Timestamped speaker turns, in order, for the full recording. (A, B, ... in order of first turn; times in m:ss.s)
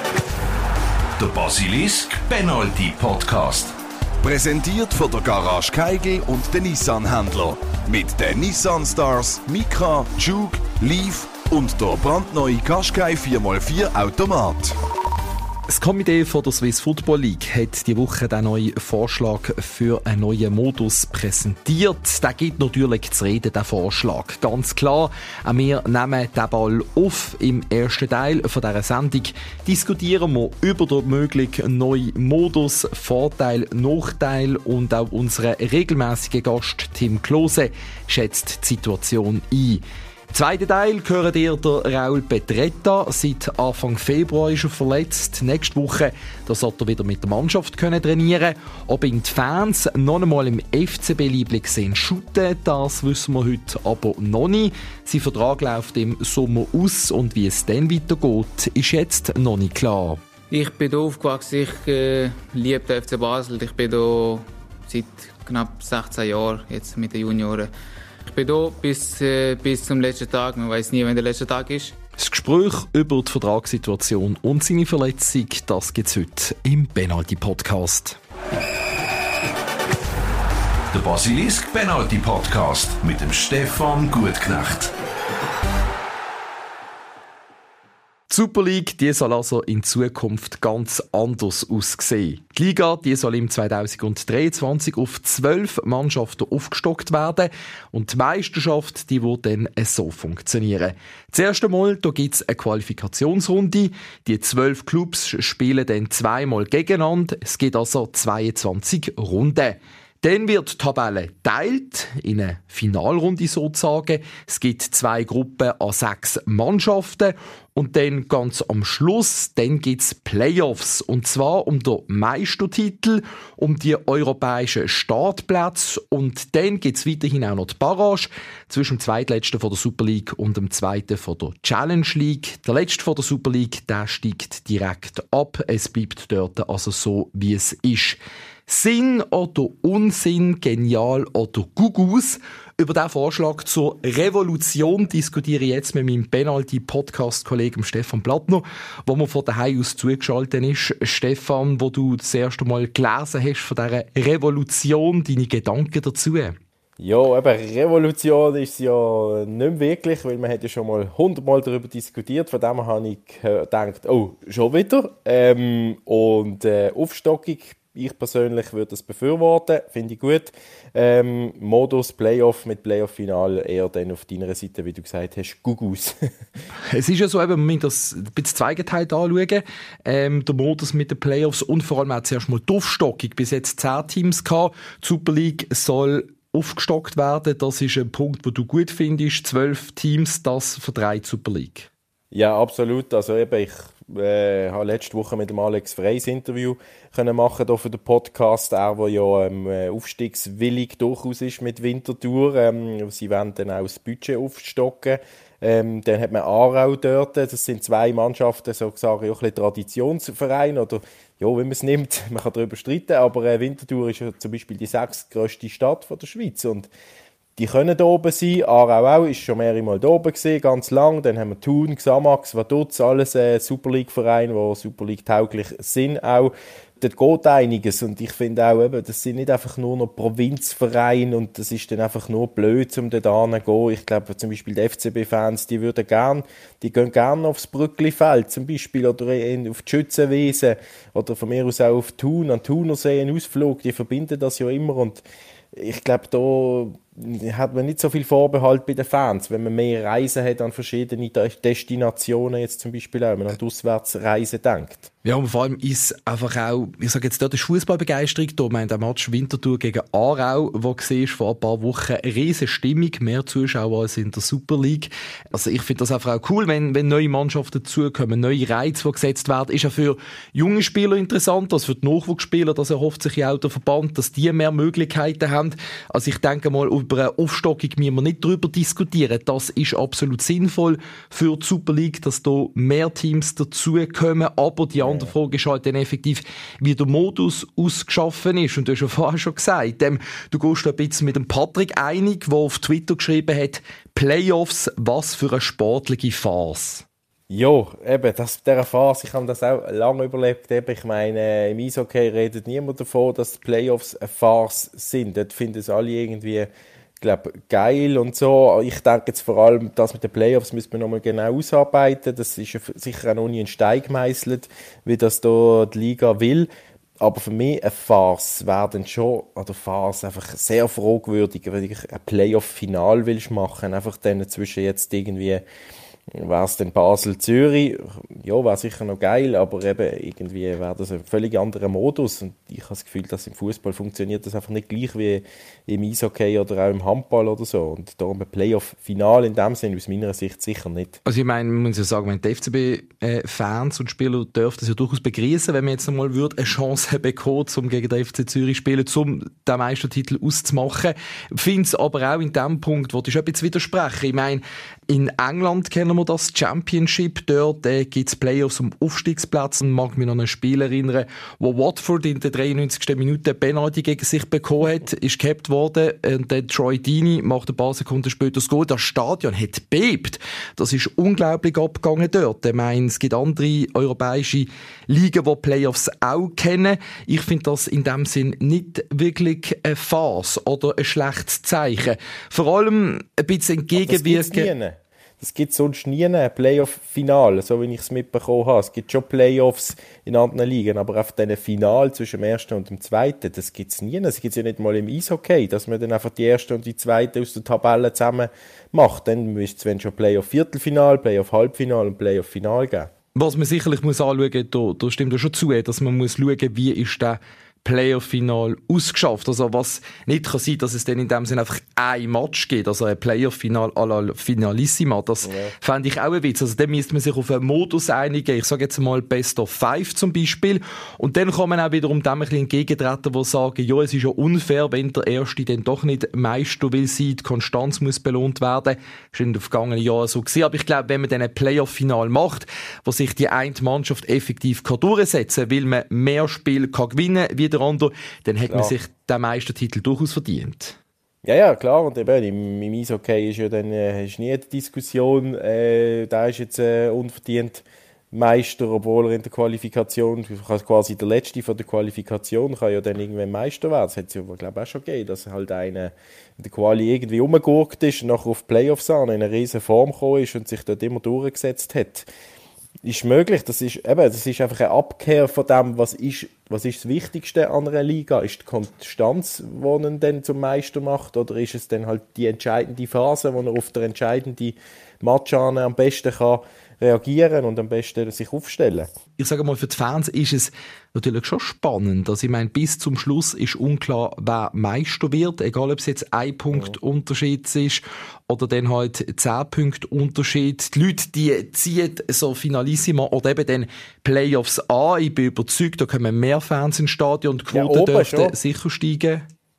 0:01.2-0:03.7 A
0:04.2-0:14.7 B
0:15.7-1:00.2 C
1:00.5-1:07.7 D
1:08.2-1:12.0 D
1:12.2-1:18.2 C
1:20.9-1:24.9 A
1:28.3-2:36.6 C
2:37.0-2:56.1 E
2:56.9-3:11.9 C
3:12.3-3:36.9 E
3:37.6-4:05.2 E
4:05.7-4:15.1 E
4:15.2-4:57.0 C
4:45.0-4:45.3 E
4:57.5-5:06.7 E
5:07.2-5:16.7 E
5:17.2-5:25.6 E
5:26.3-5:41.2 E
5:41.2-6:24.7 C
6:24.0-6:43.1 E
6:43.4-7:21.0 C
6:55.4-6:55.7 E
7:18.7-7:18.9 E
7:21.4-7:42.3 E
7:43.0-7:59.1 E
7:59.4-8:19.4 C
8:17.7-8:18.6 E